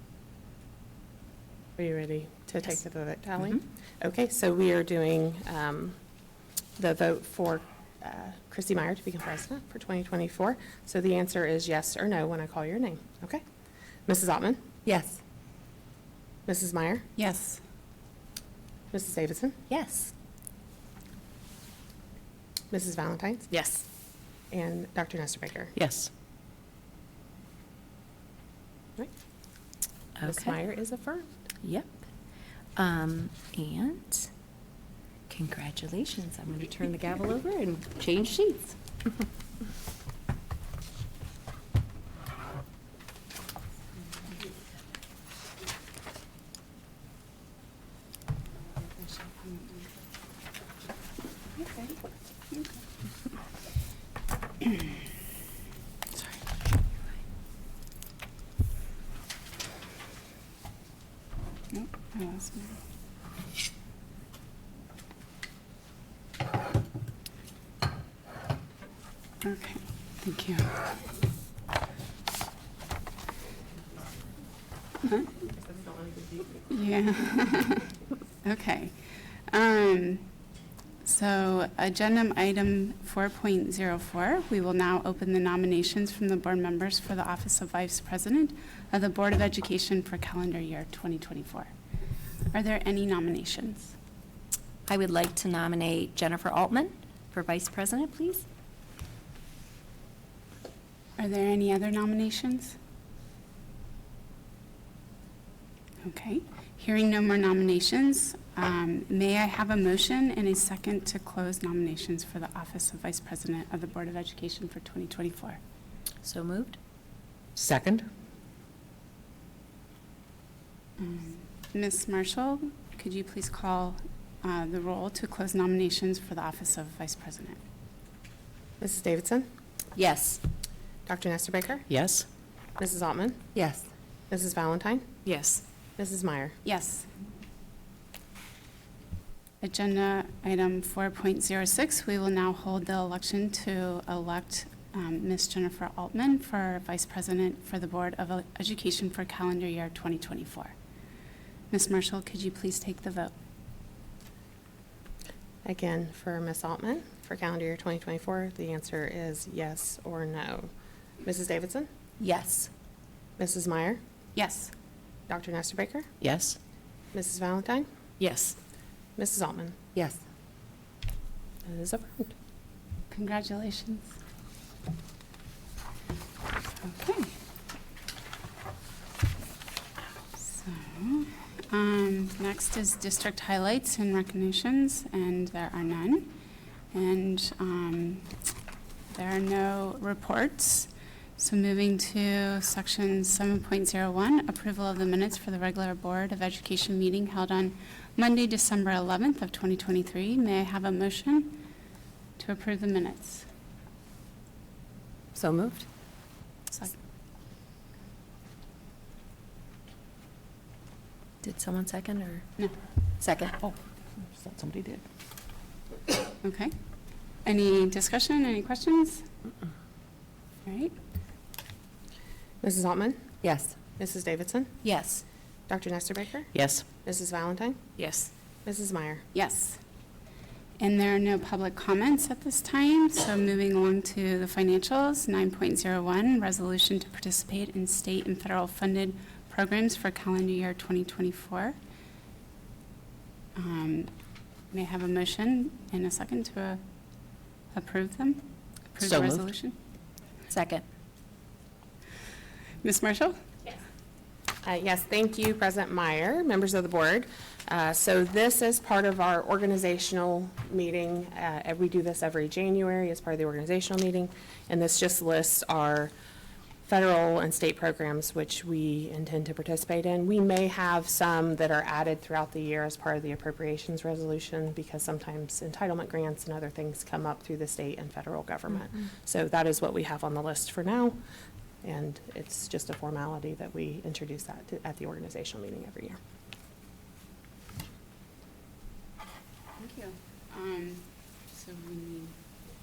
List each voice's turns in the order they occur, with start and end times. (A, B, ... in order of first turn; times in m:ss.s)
0:01.8-0:06.0 A
0:06.8-0:13.4 A
0:14.0-0:14.6 A
0:14.8-0:15.2 B
0:16.4-0:17.0 A
0:17.2-0:17.6 C
0:18.9-0:19.6 A
0:19.7-0:20.1 B
0:22.7-0:23.5 A
0:23.5-0:23.8 B
0:24.5-0:25.7 A
0:25.8-0:26.1 D
0:30.2-0:30.6 B
0:30.2-0:31.3 A
0:31.6-0:32.0 B
0:32.8-0:34.3 B
0:35.3-0:38.8 B
0:48.7-0:49.9 C
0:51.6-0:52.8 C
0:54.6-0:54.9 C
0:56.1-0:56.4 C
1:01.7-1:02.8 C
1:09.4-1:11.0 C
1:15.0-1:15.3 C
1:15.5-1:16.6 A
1:16.7-1:17.9 C
1:18.4-1:20.3 C
1:21.0-1:31.7 C
1:32.5-1:33.9 C
1:34.9-1:38.4 B
1:41.2-1:42.8 C
1:46.0-1:55.6 C
1:56.2-1:56.8 B
1:57.6-1:58.1 D
2:01.0-2:07.6 C
2:08.8-2:09.5 A
2:10.0-2:10.4 B
2:11.1-2:11.9 A
2:11.9-2:12.3 D
2:12.8-2:13.4 A
2:13.6-2:13.9 B
2:14.3-2:15.2 A
2:15.3-2:15.6 D
2:16.0-2:16.6 A
2:16.6-2:17.1 C
2:19.6-2:30.7 C
2:31.7-2:33.3 C
2:35.6-2:40.7 A
2:41.2-2:41.9 A
2:42.2-2:42.7 B
2:43.4-2:44.0 A
2:44.4-2:44.7 C
2:45.3-2:46.1 A
2:46.2-2:46.6 D
2:47.1-2:47.9 A
2:48.2-2:48.6 D
2:49.2-2:49.8 A
2:50.0-2:50.2 B
2:51.6-2:52.3 A
2:53.1-2:54.2 C
2:56.8-2:57.3 C
3:00.4-3:06.3 C
3:06.9-3:08.3 C
3:09.1-3:21.6 C
3:22.4-3:23.5 C
3:25.4-3:25.8 B
3:31.4-3:32.4 B
3:33.2-3:33.7 B
3:34.4-3:35.0 D
3:36.4-3:36.8 C
3:37.4-3:39.3 C
3:40.7-3:41.0 C
3:42.6-3:43.2 A
3:43.4-3:43.8 B
3:44.0-3:44.8 A
3:44.8-3:45.2 B
3:45.7-3:47.8 A
3:46.5-3:46.8 D
3:48.6-3:49.2 A
3:49.3-3:49.8 C
3:50.8-4:01.8 C
4:03.6-4:04.1 C
4:04.7-4:06.8 C
4:07.7-4:09.8 C
4:09.0-4:09.4 D
4:10.5-4:10.8 B
4:12.8-4:13.7 C
4:14.6-4:26.1 A
4:26.9-4:41.2 A
4:41.8-4:46.2 A
4:49.8-4:52.4 C